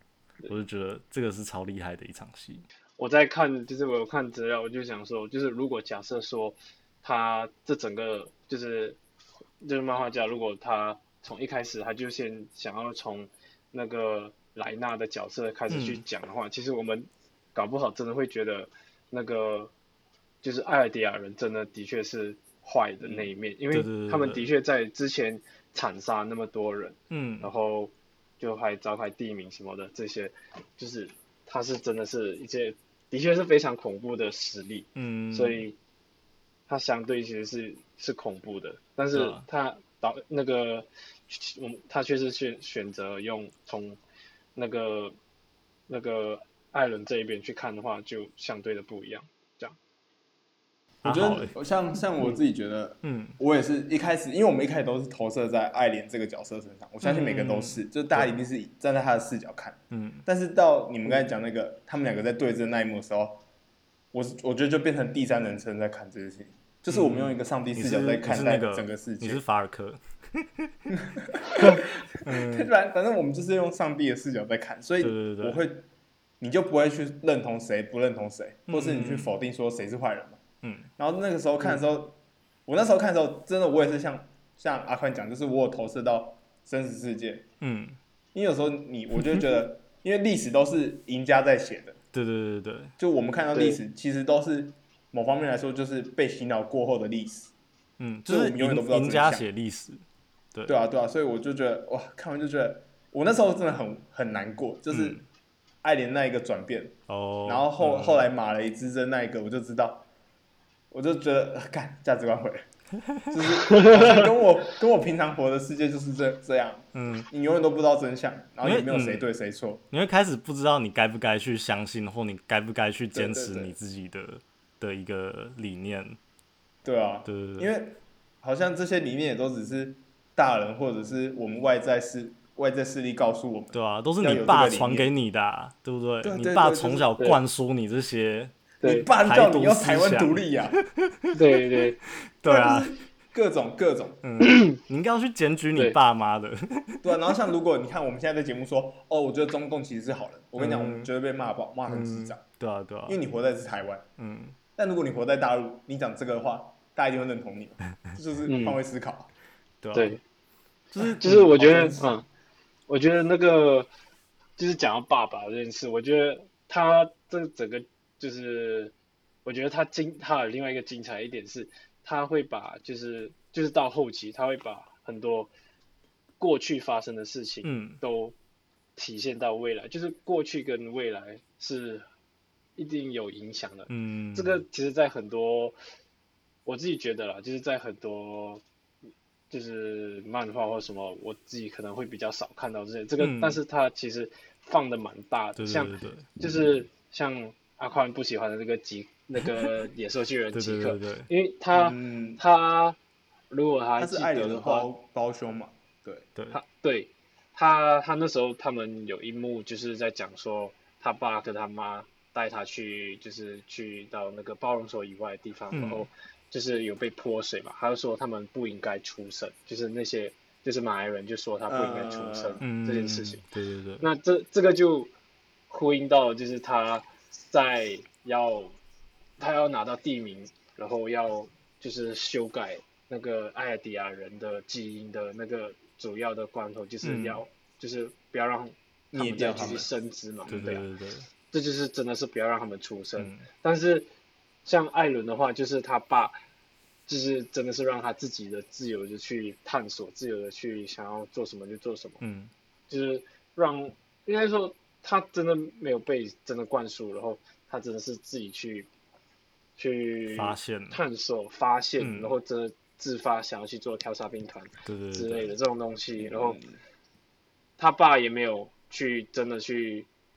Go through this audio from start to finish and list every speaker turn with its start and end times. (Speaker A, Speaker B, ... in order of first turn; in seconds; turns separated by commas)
Speaker A: 0.5-2.6, Speaker B: 3.0-9.0, Speaker B: 9.6-19.7, Speaker A: 15.7-16.0, Speaker B: 20.4-35.8, Speaker A: 23.7-24.5, Speaker A: 27.1-27.5, Speaker A: 35.0-35.6, Speaker B: 36.7-44.0, Speaker A: 39.1-39.4, Speaker B: 44.5-45.1, Speaker B: 45.9-49.8, Speaker A: 51.0-51.5, Speaker C: 51.0-63.4, Speaker A: 53.0-53.4, Speaker A: 57.0-58.3, Speaker A: 59.9-60.2, Speaker C: 64.1-69.4, Speaker A: 66.9-70.7, Speaker C: 70.9-75.9, Speaker A: 71.5-72.7, Speaker A: 75.0-75.6, Speaker C: 76.4-80.4, Speaker A: 78.7-79.3, Speaker A: 80.6-80.9, Speaker C: 81.0-87.5, Speaker A: 87.6-88.0, Speaker C: 88.3-92.0, Speaker A: 92.1-92.9, Speaker C: 93.0-97.5, Speaker B: 93.5-93.8, Speaker A: 98.0-100.0, Speaker C: 98.3-99.5, Speaker A: 100.5-100.8, Speaker C: 100.7-105.2, Speaker A: 104.9-105.2, Speaker C: 105.8-110.1, Speaker A: 107.1-108.3, Speaker C: 110.9-112.6, Speaker C: 113.3-119.8, Speaker B: 113.6-114.3, Speaker A: 116.9-117.3, Speaker A: 118.6-119.3, Speaker A: 119.9-126.2, Speaker C: 123.1-123.8, Speaker C: 126.8-135.1, Speaker A: 127.2-127.7, Speaker A: 133.7-138.5, Speaker C: 136.2-137.1, Speaker B: 138.8-139.1, Speaker C: 138.8-140.8, Speaker A: 139.1-141.6, Speaker B: 141.3-142.0, Speaker A: 142.4-142.9, Speaker C: 142.4-144.2, Speaker A: 144.2-147.1, Speaker B: 144.4-144.8, Speaker C: 147.0-152.4, Speaker A: 150.6-151.1, Speaker A: 151.9-153.2, Speaker C: 153.1-154.1, Speaker A: 154.2-154.6, Speaker C: 154.8-159.3, Speaker B: 158.4-158.8, Speaker A: 159.8-160.2, Speaker B: 159.9-160.2, Speaker A: 160.9-161.5, Speaker B: 161.2-162.2, Speaker C: 161.3-162.2, Speaker B: 162.9-163.9, Speaker B: 164.6-168.9, Speaker B: 169.4-175.5, Speaker B: 176.4-178.3, Speaker A: 177.6-178.0, Speaker B: 178.9-182.1, Speaker B: 182.8-185.8, Speaker A: 183.9-184.6, Speaker B: 186.7-188.6, Speaker B: 189.5-203.0, Speaker A: 193.2-193.6, Speaker A: 195.6-196.3, Speaker A: 200.5-201.3, Speaker C: 201.7-202.4, Speaker B: 203.5-204.9, Speaker C: 204.0-206.3, Speaker B: 206.5-223.4, Speaker A: 215.7-216.1, Speaker C: 221.7-222.6, Speaker A: 222.6-224.1, Speaker B: 224.0-225.1, Speaker B: 225.7-228.8, Speaker B: 229.4-240.8, Speaker A: 237.0-237.4, Speaker C: 239.1-239.9, Speaker A: 240.5-241.2, Speaker B: 241.5-244.1, Speaker A: 243.2-243.5, Speaker B: 244.6-246.3, Speaker B: 247.1-252.2, Speaker A: 252.2-252.5, Speaker B: 252.9-258.9, Speaker B: 259.8-266.6, Speaker A: 260.3-261.0, Speaker A: 262.0-262.3, Speaker A: 264.9-265.5, Speaker C: 266.2-266.8, Speaker B: 267.8-270.1